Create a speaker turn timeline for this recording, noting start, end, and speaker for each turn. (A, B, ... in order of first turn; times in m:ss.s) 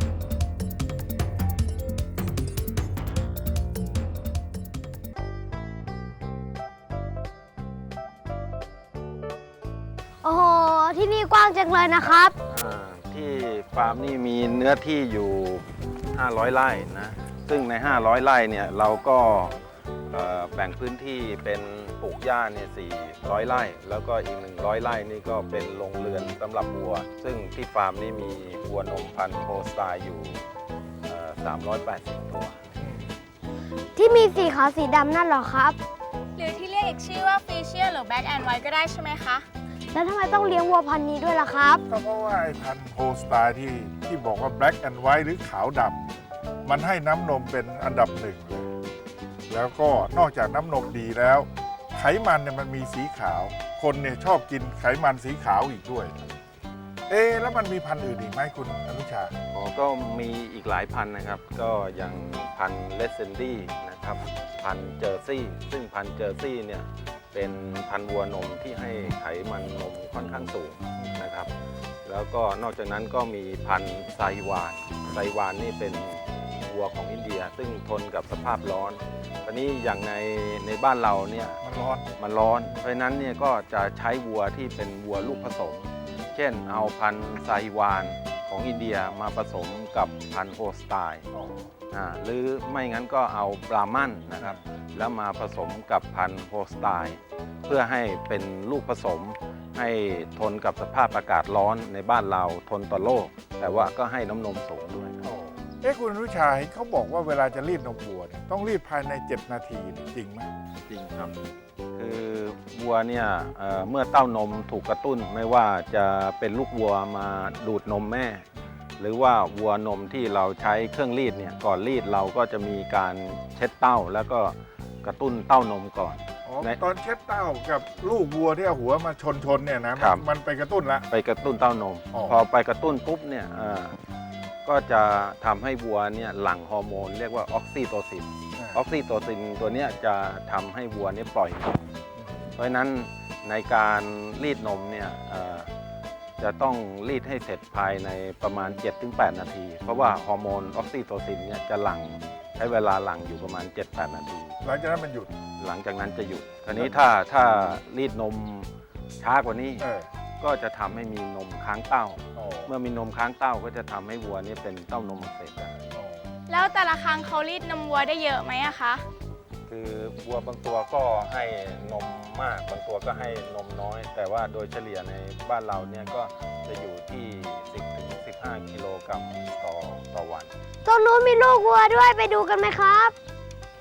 0:10.2-0:12.3 A
0:12.5-0:30.4 B
0:31.0-0:32.6 B
0:34.0-0:35.8 A
0:36.4-0:39.4 C
0:39.9-0:41.8 A
0:41.9-0:46.1 D
0:46.7-0:48.7 D
0:49.5-0:56.2 D
0:57.1-0:59.3 D
0:59.5-1:11.5 B
1:12.0-1:21.6 B
1:21.6-1:22.9 D
1:22.2-1:31.3 B
1:31.4-1:31.6 D
1:31.9-1:45.2 B
1:45.2-1:50.5 D
1:50.9-1:51.4 B
1:52.0-1:58.4 B
1:59.0-2:06.8 B
2:06.5-2:11.1 D
2:10.0-2:10.2 B
2:11.1-2:14.0 B
2:12.1-2:12.4 D
2:14.6-2:21.9 B
2:22.6-2:25.7 B
2:26.4-2:34.6 B
2:34.6-2:35.3 D
2:35.6-2:39.9 B
2:39.8-2:40.1 D
2:40.4-2:45.8 B
2:42.4-2:42.7 D
2:45.9-2:46.3 D
2:46.5-2:49.0 C
2:49.7-3:00.5 B
3:00.8-3:03.1 A